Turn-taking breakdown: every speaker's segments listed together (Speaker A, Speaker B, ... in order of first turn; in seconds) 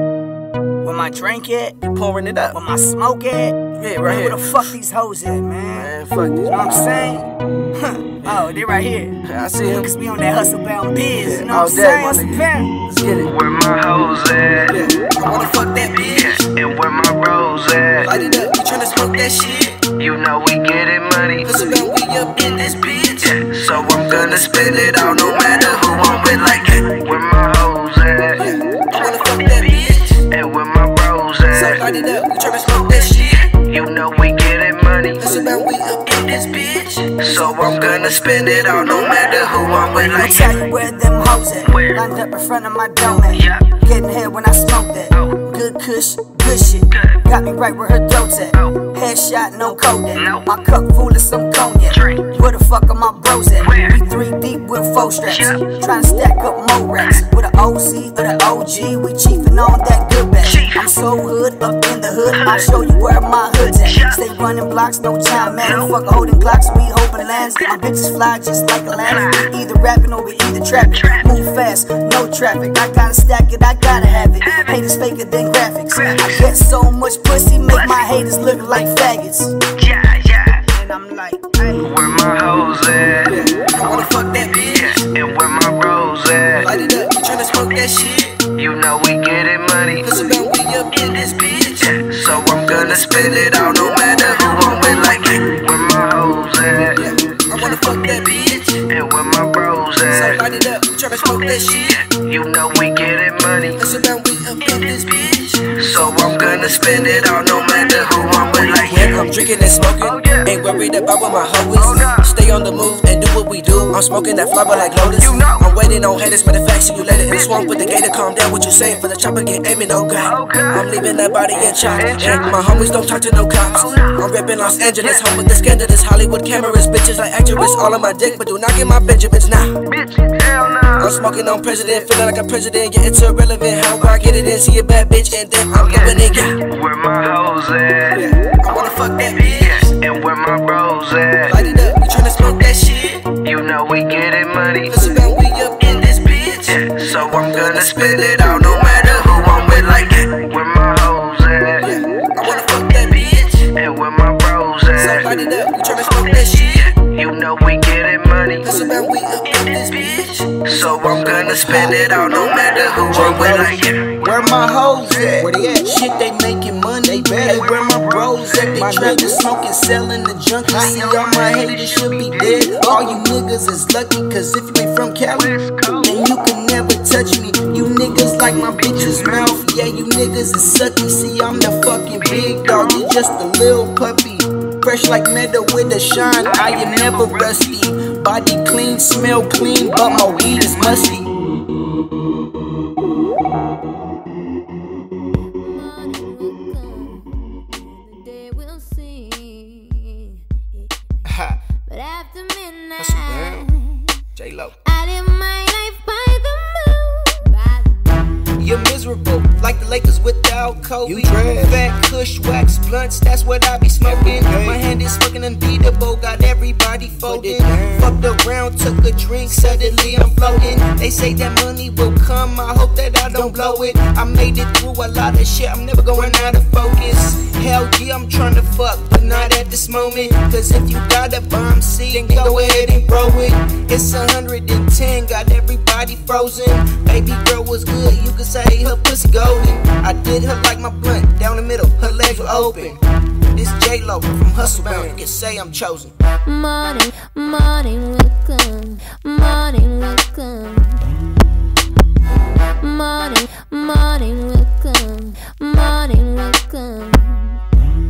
Speaker A: 0.8-1.7, 2.6-3.5, 4.5-5.8, 6.5-7.2, 7.8-9.1, 10.2-12.7, 40.1-79.5, 80.7-81.8
Speaker B: 1.9-2.5, 3.8-4.5, 5.7-6.6, 9.2-9.9, 11.2-13.3, 14.7-16.4, 18.0-19.8, 21.4-23.4, 23.9-26.9, 28.4-30.2, 31.5-33.5, 35.2-40.6, 83.3-85.0, 86.5-88.4, 90.0-95.3, 96.9-98.8, 100.1-102.0, 103.8-129.8, 131.0-136.6, 138.1-139.9, 141.5-143.2, 144.9-150.3, 151.8-153.7, 154.9-156.9, 158.6-160.6, 161.5-161.9
Speaker C: 4.0-4.4, 131.6-132.0, 134.1-134.4, 135.8-136.3, 161.1-175.5, 176.0-191.3, 201.3-201.6, 203.0-203.6, 204.3-204.8, 208.6-243.0, 243.5-246.1
Speaker D: 13.2-14.8, 15.8-18.1, 20.0-21.6, 23.2-28.4, 29.0-31.9, 32.8-35.3, 37.1-40.7, 41.6-42.0, 43.3-43.8, 45.1-45.4, 46.9-47.2, 49.6-50.5, 51.9-52.3, 53.6-54.0, 55.2-55.8, 60.4-60.9, 62.3-62.8, 63.8-64.2, 65.3-66.0, 67.2-67.7, 68.9-69.5, 70.7-71.4, 74.4-74.8, 75.9-76.5, 77.7-78.1, 79.8-80.6, 81.7-86.7, 88.5-90.3, 90.9-100.5, 101.1-103.8, 104.6-110.5, 111.7-112.3, 114.7-115.7, 117.3-117.9, 120.1-125.3, 129.8-131.3, 135.7-138.3, 139.2-141.6, 143.4-145.0, 146.6-151.9, 153.4-158.7, 159.4-164.6, 170.8-172.8, 175.3-176.2, 179.0-179.4, 182.2-182.9, 186.4-187.8, 190.1-190.9
Speaker E: 195.6-200.9, 201.8-204.2, 204.8-208.2, 246.4-251.0, 252.8-257.6